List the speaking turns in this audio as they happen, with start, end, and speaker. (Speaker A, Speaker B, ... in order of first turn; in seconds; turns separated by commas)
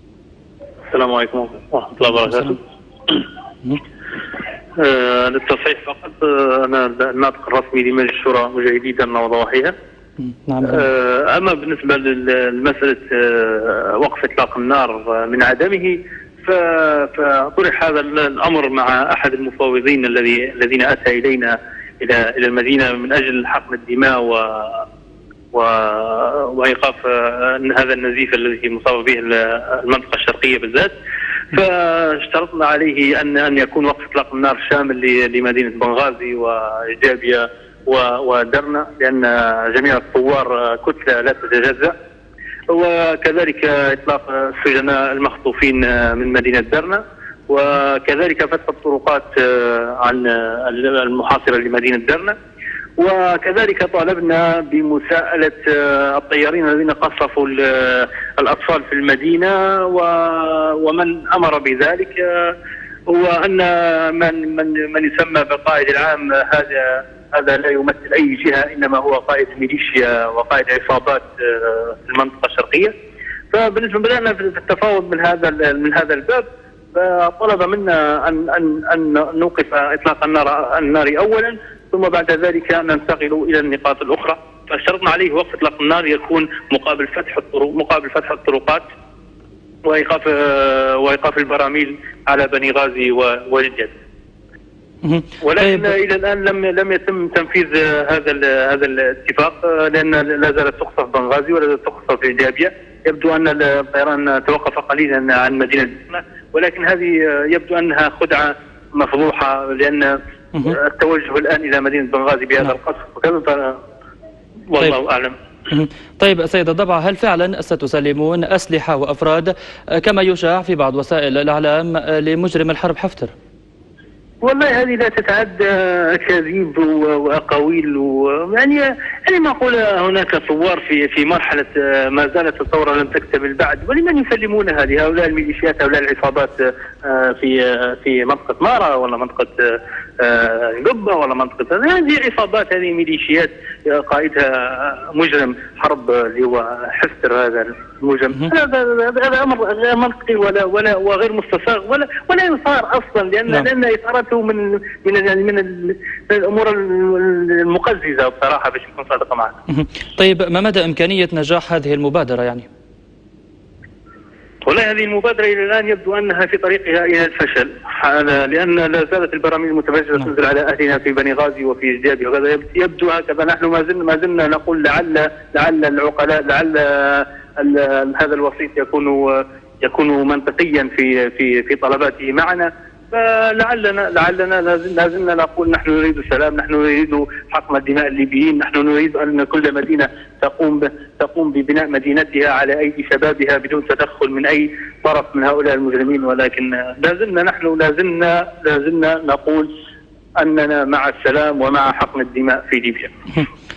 Speaker A: 0.9-2.6, Speaker A: 4.8-9.7, Speaker B: 10.2-10.9, Speaker A: 10.6-24.9, Speaker A: 25.5-30.9, Speaker A: 31.5-41.9, Speaker A: 42.7-52.4, Speaker A: 53.0-62.5, Speaker A: 63.1-72.9, Speaker A: 73.5-88.8, Speaker A: 89.8-94.0, Speaker B: 95.0-95.9, Speaker A: 95.4-113.8, Speaker A: 114.7-115.4, Speaker B: 115.7-123.3, Speaker A: 124.4-159.6, Speaker B: 159.7-162.7, Speaker A: 164.7-199.7, Speaker A: 200.4-203.1